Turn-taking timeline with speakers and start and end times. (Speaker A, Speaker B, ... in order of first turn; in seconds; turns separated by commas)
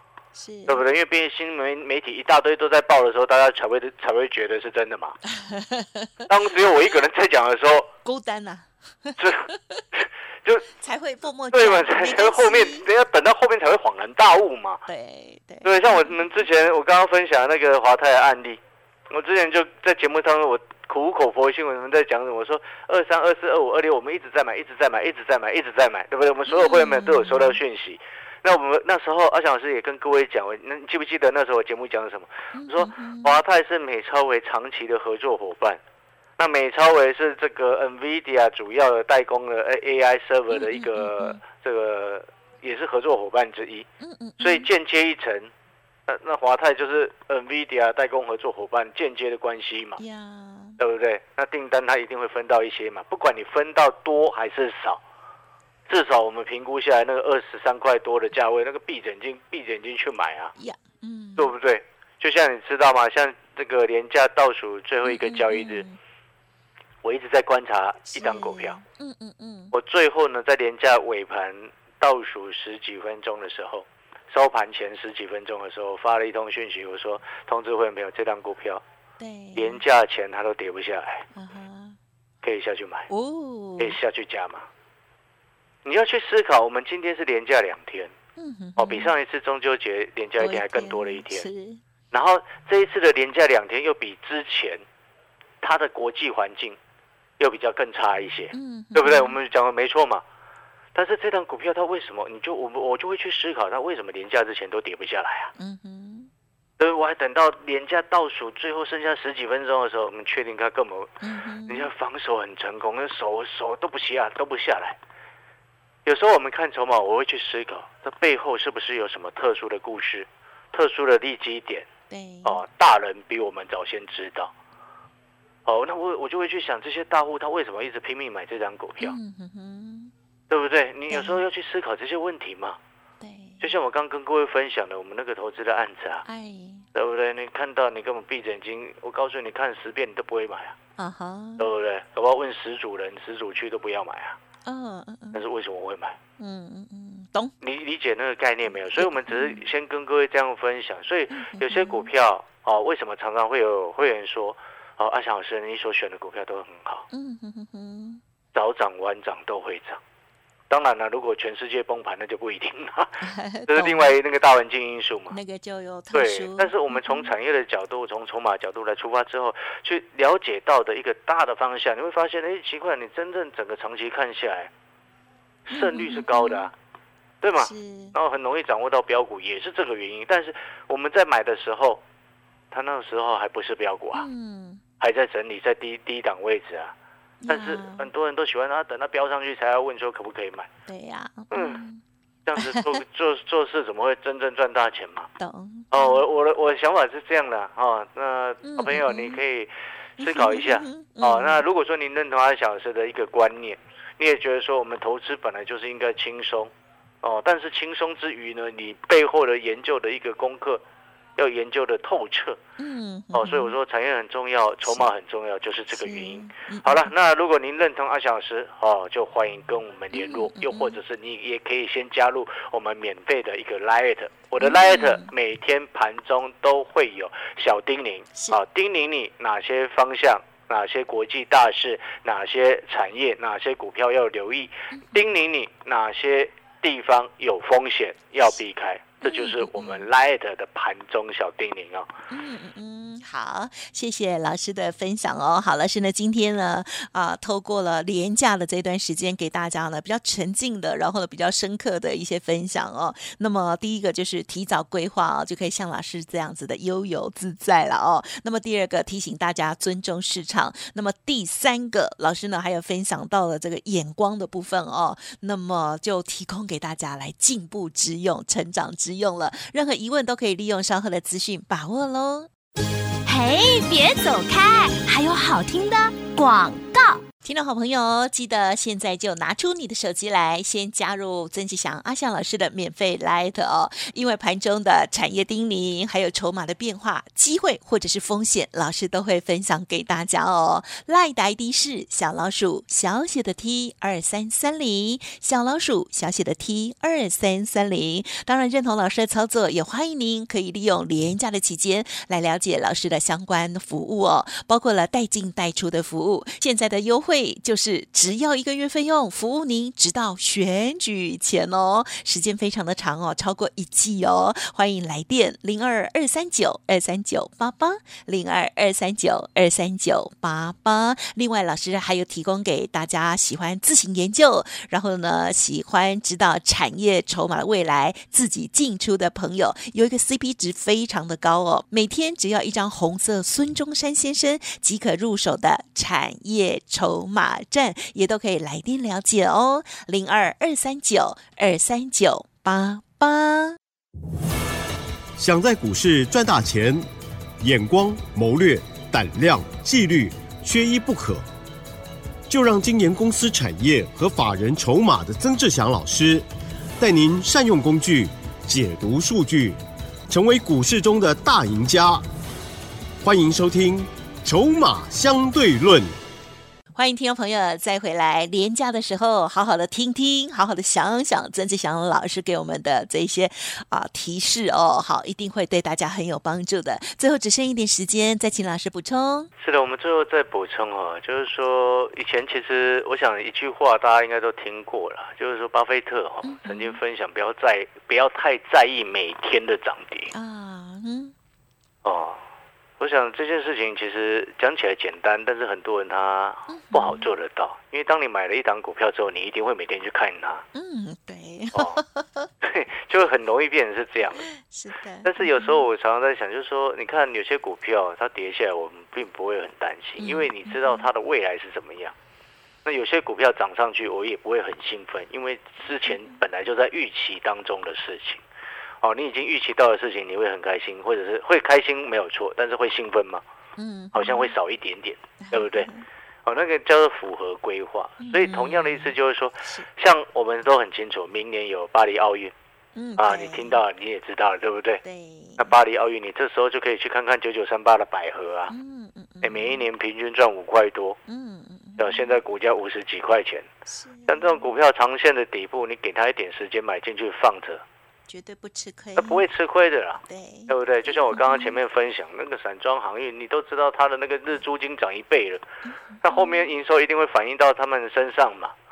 Speaker A: 0.3-0.8, Speaker B: 0.7-5.2, Speaker A: 5.2-6.3, Speaker B: 6.3-7.9, Speaker A: 8.0-9.8, Speaker B: 9.2-10.6, Speaker A: 10.7-12.9, Speaker B: 11.5-14.8, Speaker A: 14.9-16.3, Speaker B: 15.6-35.8, Speaker A: 26.5-27.6, Speaker A: 32.5-33.4, Speaker B: 36.4-43.9, Speaker A: 40.5-41.4, Speaker A: 44.0-44.7, Speaker B: 44.4-45.5, Speaker B: 46.1-50.0, Speaker A: 50.0-50.8, Speaker B: 50.8-55.0, Speaker B: 55.9-60.5, Speaker A: 60.6-61.5, Speaker B: 61.4-65.8, Speaker A: 65.0-66.0, Speaker B: 67.0-68.8, Speaker A: 68.1-69.7, Speaker B: 69.7-78.8, Speaker A: 79.2-79.8, Speaker B: 79.5-81.2, Speaker A: 81.3-82.0, Speaker B: 82.4-83.1, Speaker A: 83.1-84.0, Speaker B: 83.8-84.7, Speaker B: 85.8-88.1, Speaker A: 88.4-89.1, Speaker B: 88.8-91.5, Speaker A: 90.4-91.8, Speaker B: 92.1-94.8, Speaker B: 95.6-96.8, Speaker B: 97.4-100.2, Speaker A: 98.5-99.4, Speaker B: 100.9-105.5, Speaker A: 105.6-106.3, Speaker B: 106.8-111.1, Speaker A: 111.2-111.9, Speaker B: 111.7-115.0, Speaker B: 116.0-121.9, Speaker A: 122.1-122.6, Speaker B: 122.4-124.5, Speaker B: 125.7-129.1, Speaker A: 129.0-130.1, Speaker B: 130.5-132.8, Speaker A: 131.1-131.4, Speaker A: 133.2-133.7, Speaker B: 133.6-136.2, Speaker A: 136.2-136.8, Speaker B: 136.9-140.8, Speaker A: 141.0-141.7, Speaker B: 141.6-144.4, Speaker A: 144.7-145.4, Speaker B: 145.3-146.2, Speaker A: 146.4-147.5, Speaker B: 147.6-157.1, Speaker A: 148.9-149.6, Speaker A: 151.3-152.1, Speaker A: 157.1-158.2, Speaker B: 158.5-160.0, Speaker B: 160.7-165.3, Speaker A: 163.2-164.2, Speaker A: 165.3-167.3, Speaker B: 166.1-174.7, Speaker B: 175.7-176.7, Speaker A: 175.7-176.7, Speaker B: 177.4-182.0, Speaker A: 177.6-178.1, Speaker B: 182.7-184.3, Speaker A: 184.1-184.8, Speaker B: 185.0-186.9, Speaker A: 187.4-188.1, Speaker B: 187.5-190.7, Speaker A: 190.9-192.0, Speaker B: 191.5-191.8, Speaker B: 192.4-195.3, Speaker A: 192.6-193.0, Speaker A: 195.4-196.2, Speaker B: 195.9-206.7, Speaker A: 198.6-199.4, Speaker A: 200.2-201.6, Speaker B: 207.2-210.8, Speaker B: 211.4-212.6, Speaker A: 212.8-213.8, Speaker B: 213.3-242.1, Speaker A: 215.9-217.1, Speaker A: 220.1-221.0, Speaker A: 224.6-225.3, Speaker A: 234.9-235.3, Speaker A: 239.2-240.1, Speaker A: 242.3-272.5, Speaker A: 273.2-343.8, Speaker C: 345.4-347.0, Speaker C: 347.6-351.4, Speaker C: 352.5-356.4, Speaker C: 357.0-359.8, Speaker C: 360.3-362.2, Speaker C: 363.2-366.1, Speaker A: 366.9-379.5, Speaker B: 379.6-390.3, Speaker A: 386.4-387.0, Speaker A: 390.3-391.3, Speaker B: 392.0-392.4, Speaker B: 393.0-400.6, Speaker A: 396.7-397.3, Speaker A: 400.7-402.5, Speaker B: 401.7-402.0, Speaker B: 402.6-404.4, Speaker A: 404.4-405.8, Speaker B: 405.2-412.1, Speaker A: 410.2-411.1, Speaker B: 412.8-418.4, Speaker B: 419.0-423.4, Speaker A: 423.8-424.6, Speaker B: 424.1-425.9, Speaker A: 425.4-426.0, Speaker B: 426.4-432.5, Speaker A: 428.2-429.9, Speaker A: 432.9-433.8, Speaker B: 433.2-435.0, Speaker A: 435.0-435.8, Speaker B: 435.6-438.7, Speaker A: 438.7-439.8, Speaker B: 439.4-441.2, Speaker A: 441.3-442.4, Speaker B: 442.0-443.6, Speaker A: 443.9-444.7, Speaker B: 444.3-447.8, Speaker A: 448.3-449.4, Speaker B: 449.2-455.6, Speaker A: 450.3-451.8, Speaker A: 455.9-456.7, Speaker B: 456.2-458.7